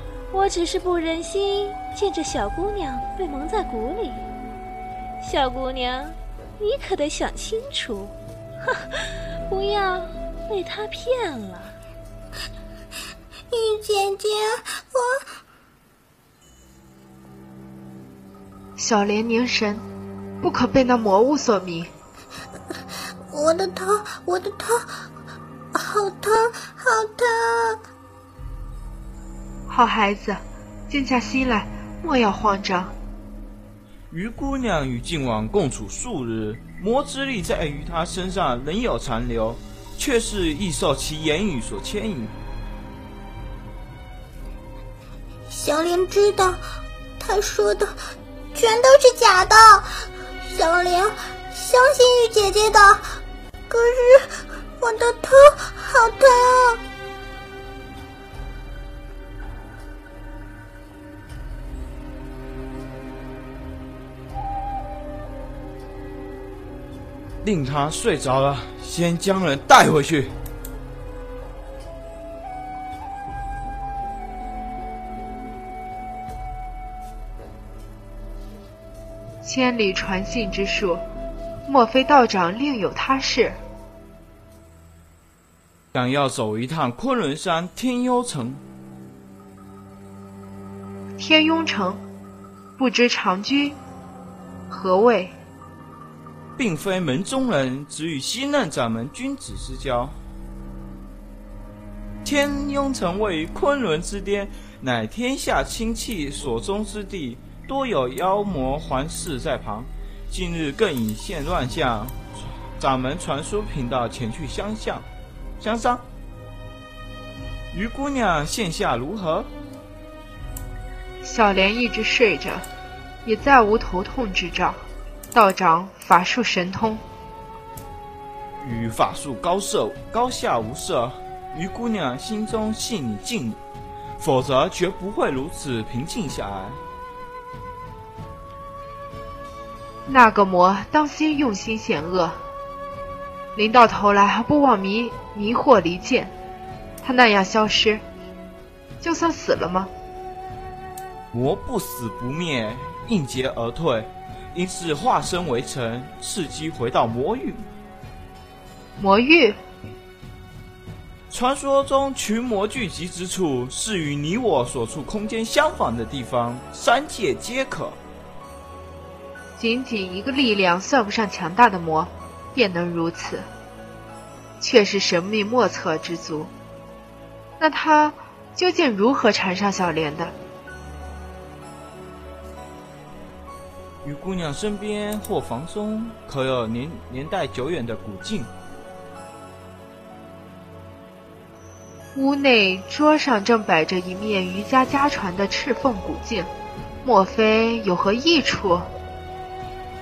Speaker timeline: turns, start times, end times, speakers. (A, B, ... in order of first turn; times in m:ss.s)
0:00.3-0:04.3 A
0:05.2-0:11.8 A
0:13.5-0:15.2 B
0:18.8-0:19.8 C
0:20.4-0:21.9 C
0:23.3-0:25.0 B
0:25.7-0:27.8 B
0:29.7-0:32.9 C
0:34.1-0:42.3 D
0:45.5-0:46.6 B
0:47.2-0:48.0 B
0:48.5-0:49.9 B
0:50.4-0:53.1 B
0:53.7-0:56.8 B
1:07.4-1:10.3 D
1:19.4-1:21.0 C
1:21.7-1:23.6 C
1:25.9-1:28.6 D
1:31.2-1:32.0 C
1:32.8-1:33.8 C
1:34.7-1:35.3 C
1:36.6-1:40.2 D
1:42.2-1:55.1 D
1:55.6-1:56.0 D
1:57.7-1:59.5 D
2:01.2-2:02.6 C
2:03.2-2:04.8 C
2:05.3-2:07.0 C
2:08.6-2:13.6 D
2:14.2-2:16.8 D
2:20.1-2:22.4 C
2:23.6-2:26.3 C
2:27.0-2:28.0 C
2:29.0-2:29.9 C
2:31.3-2:37.6 D
2:39.0-2:39.6 C
2:41.3-2:48.0 D
2:49.6-2:53.4 C
2:54.6-2:56.5 C
2:57.6-3:00.3 C
3:04.0-3:08.5 D
3:12.2-3:16.5 C
3:17.0-3:18.9 C